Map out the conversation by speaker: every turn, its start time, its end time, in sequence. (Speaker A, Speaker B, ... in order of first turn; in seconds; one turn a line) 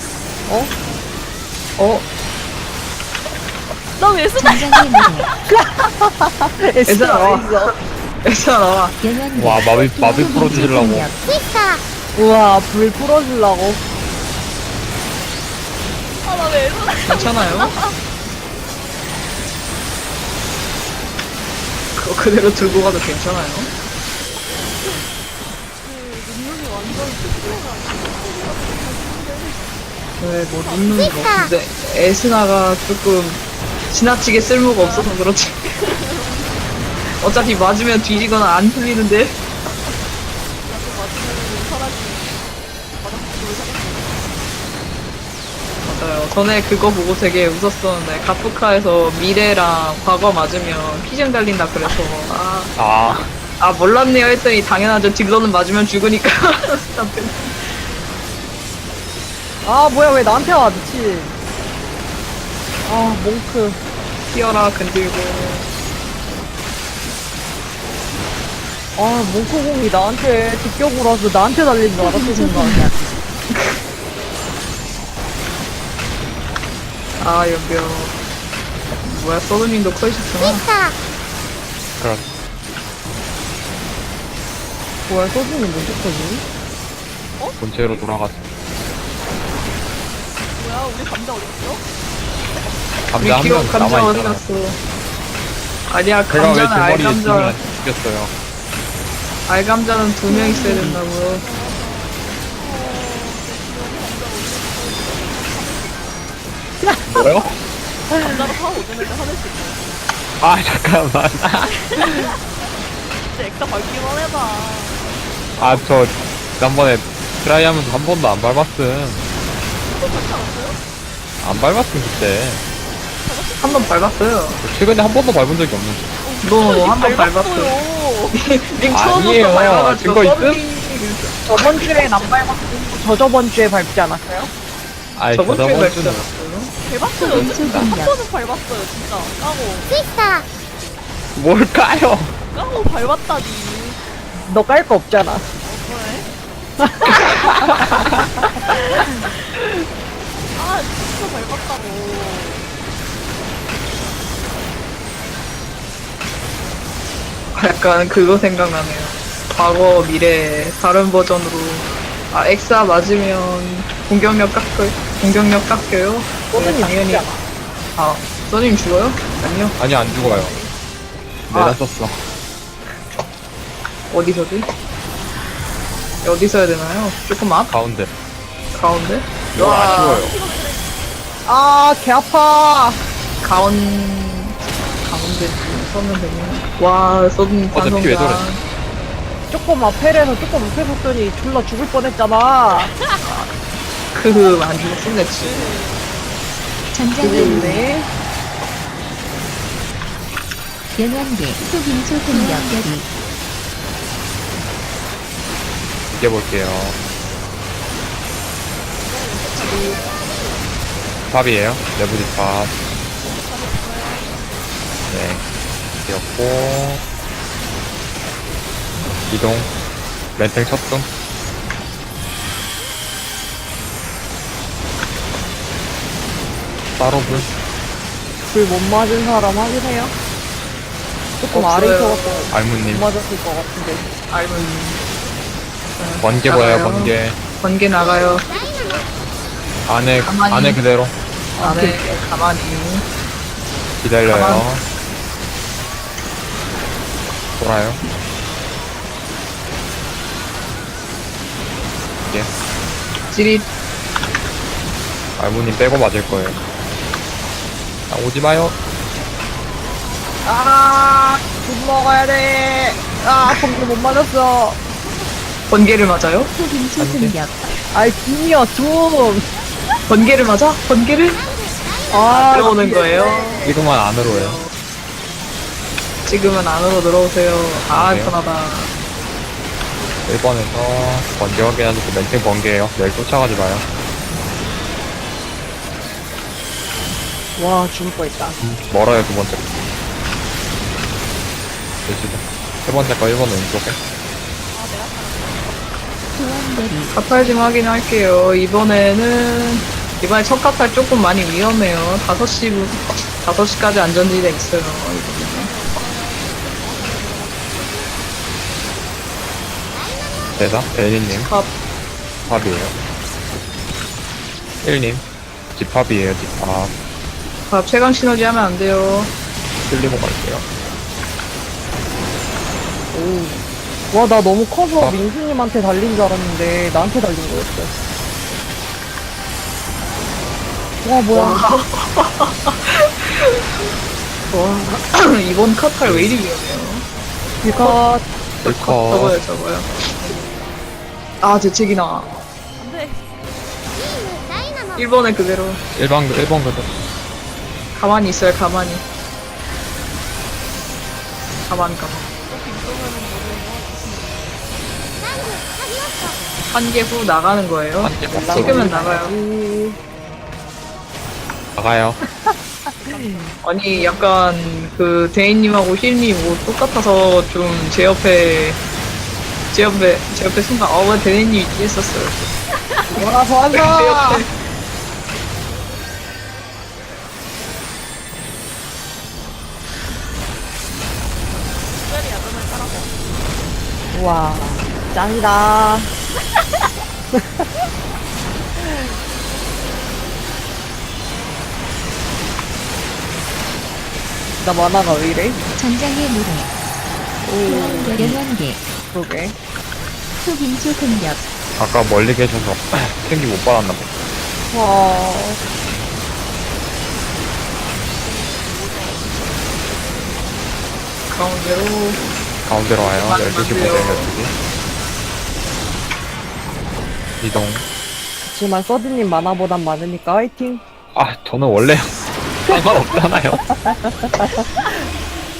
Speaker A: 0.5-0.7
Speaker B: 1.8-2.0
Speaker C: 4.0-4.8
Speaker D: 4.4-5.3
Speaker A: 5.5-7.7
Speaker B: 6.9-8.9
Speaker D: 9.0-11.2
Speaker E: 9.3-11.1
Speaker A: 12.2-13.8
Speaker C: 16.2-17.9
Speaker B: 17.1-17.7
Speaker B: 21.9-23.7
Speaker C: 24.8-25.1
Speaker C: 25.8-29.8
Speaker B: 30.2-35.6
Speaker C: 30.6-30.9
Speaker C: 34.8-35.1
Speaker C: 35.7-37.6
Speaker B: 37.2-39.4
Speaker C: 40.6-44.2
Speaker B: 45.8-52.7
Speaker E: 52.8-53.3
Speaker B: 53.6-57.6
Speaker A: 59.6-61.3
Speaker A: 62.9-63.8
Speaker B: 64.3-65.7
Speaker A: 69.0-72.9
Speaker D: 72.0-73.0
Speaker B: 77.2-78.1
Speaker B: 79.0-80.7
Speaker E: 82.0-82.3
Speaker A: 85.1-86.4
Speaker C: 87.4-88.0
Speaker E: 87.6-88.4
Speaker C: 90.5-91.8
Speaker E: 93.1-94.4
Speaker B: 93.2-94.8
Speaker B: 95.9-97.5
Speaker E: 96.3-98.3
Speaker B: 99.5-101.4
Speaker D: 100.3-101.0
Speaker C: 101.3-106.2
Speaker E: 107.1-107.6
Speaker C: 108.2-109.9
Speaker E: 110.4-112.3
Speaker C: 111.6-112.4
Speaker C: 113.3-115.0
Speaker C: 115.5-115.9
Speaker E: 115.6-119.2
Speaker C: 119.9-120.8
Speaker E: 121.4-122.6
Speaker C: 123.2-124.3
Speaker B: 123.6-124.6
Speaker E: 124.6-126.1
Speaker C: 126.2-128.4
Speaker B: 126.4-127.8
Speaker B: 128.3-131.8
Speaker E: 128.9-130.6
Speaker A: 131.5-134.5
Speaker E: 135.2-136.3
Speaker B: 135.3-136.7
Speaker C: 136.8-140.0
Speaker E: 137.2-137.9
Speaker D: 137.3-138.1
Speaker E: 141.3-142.3
Speaker C: 142.5-144.0
Speaker A: 144.4-145.4
Speaker C: 145.6-146.3
Speaker A: 146.8-147.5
Speaker E: 147.2-148.0
Speaker C: 148.7-149.3
Speaker C: 150.5-152.7
Speaker B: 157.5-167.2
Speaker A: 166.5-167.4
Speaker B: 167.9-169.8
Speaker E: 169.8-170.6
Speaker A: 170.0-170.7
Speaker E: 171.5-172.2
Speaker B: 171.5-171.8
Speaker B: 174.1-174.7
Speaker B: 176.2-177.7
Speaker E: 177.7-178.1
Speaker B: 178.7-180.3
Speaker E: 179.5-180.4
Speaker C: 179.8-180.9
Speaker A: 181.4-183.0
Speaker B: 183.4-188.6
Speaker E: 187.7-188.4
Speaker A: 189.5-192.9
Speaker C: 192.9-193.2
Speaker B: 193.2-193.5
Speaker B: 194.1-195.6
Speaker C: 194.3-196.4
Speaker D: 196.9-197.9
Speaker B: 197.2-197.8
Speaker A: 197.2-198.1
Speaker D: 201.0-203.1
Speaker E: 206.1-207.0
Speaker C: 209.0-210.4
Speaker E: 211.3-212.7
Speaker C: 213.2-214.5
Speaker E: 215.1-215.4
Speaker E: 216.1-217.0
Speaker E: 219.3-219.7
Speaker E: 220.4-221.1
Speaker E: 227.0-227.5
Speaker A: 228.5-230.1
Speaker A: 231.4-234.1
Speaker B: 231.5-232.5
Speaker E: 232.5-233.1
Speaker B: 234.3-235.0
Speaker B: 236.0-238.5
Speaker E: 236.2-237.4
Speaker E: 239.9-241.1
Speaker B: 240.2-240.8
Speaker A: 241.6-242.2
Speaker B: 241.6-243.0
Speaker E: 244.0-244.8
Speaker B: 244.3-244.6
Speaker E: 247.6-248.0
Speaker B: 253.3-253.6
Speaker E: 255.4-256.6
Speaker E: 258.1-258.8
Speaker A: 260.4-264.8
Speaker B: 265.7-266.5
Speaker D: 266.5-267.7
Speaker E: 267.0-267.4
Speaker A: 267.9-269.4
Speaker B: 270.1-271.4
Speaker A: 272.1-273.7
Speaker B: 272.3-274.7
Speaker E: 273.6-274.6
Speaker B: 276.2-278.9
Speaker E: 277.8-278.4
Speaker E: 280.2-283.8
Speaker A: 287.6-288.6
Speaker E: 288.6-289.6
Speaker E: 292.1-294.0
Speaker C: 294.7-295.9
Speaker D: 296.4-297.1
Speaker B: 297.1-305.7
Speaker C: 305.4-308.3
Speaker E: 310.6-311.5
Speaker B: 311.3-311.7
Speaker E: 312.5-312.9
Speaker E: 314.8-315.2
Speaker E: 315.8-316.9
Speaker B: 317.7-319.3
Speaker E: 319.9-320.6
Speaker A: 323.1-323.6
Speaker A: 324.1-327.9
Speaker E: 325.0-325.2
Speaker A: 331.0-331.6
Speaker B: 331.3-333.6
Speaker A: 334.5-334.9
Speaker B: 334.6-337.1
Speaker E: 336.0-336.4
Speaker A: 337.6-338.2
Speaker B: 337.6-338.0
Speaker B: 338.6-340.4
Speaker E: 338.6-339.4
Speaker B: 341.4-342.4
Speaker C: 342.8-343.3
Speaker B: 344.9-345.8
Speaker E: 345.9-346.9
Speaker B: 347.9-349.0
Speaker B: 351.7-352.3
Speaker C: 352.4-354.6
Speaker B: 356.7-359.3
Speaker E: 358.0-358.9
Speaker A: 358.3-360.0
Speaker E: 361.8-362.2
Speaker C: 363.0-363.6
Speaker A: 363.1-363.5
Speaker B: 363.6-368.8
Speaker B: 369.7-372.5
Speaker A: 373.1-374.4
Speaker B: 373.7-374.5
Speaker C: 382.0-383.2
Speaker A: 384.1-386.1
Speaker A: 387.3-387.6
Speaker A: 394.6-395.6
Speaker D: 395.8-396.7
Speaker A: 397.4-398.4
Speaker D: 397.6-398.8
Speaker A: 399.1-399.6
Speaker D: 400.4-401.4
Speaker E: 401.8-404.1
Speaker A: 404.7-405.6
Speaker C: 408.1-410.1
Speaker B: 411.3-412.2
Speaker E: 412.6-414.5
Speaker B: 413.0-414.3
Speaker E: 417.4-417.8
Speaker A: 418.4-420.8
Speaker E: 421.1-422.1
Speaker E: 422.6-423.6
Speaker A: 422.7-423.1
Speaker A: 423.7-424.7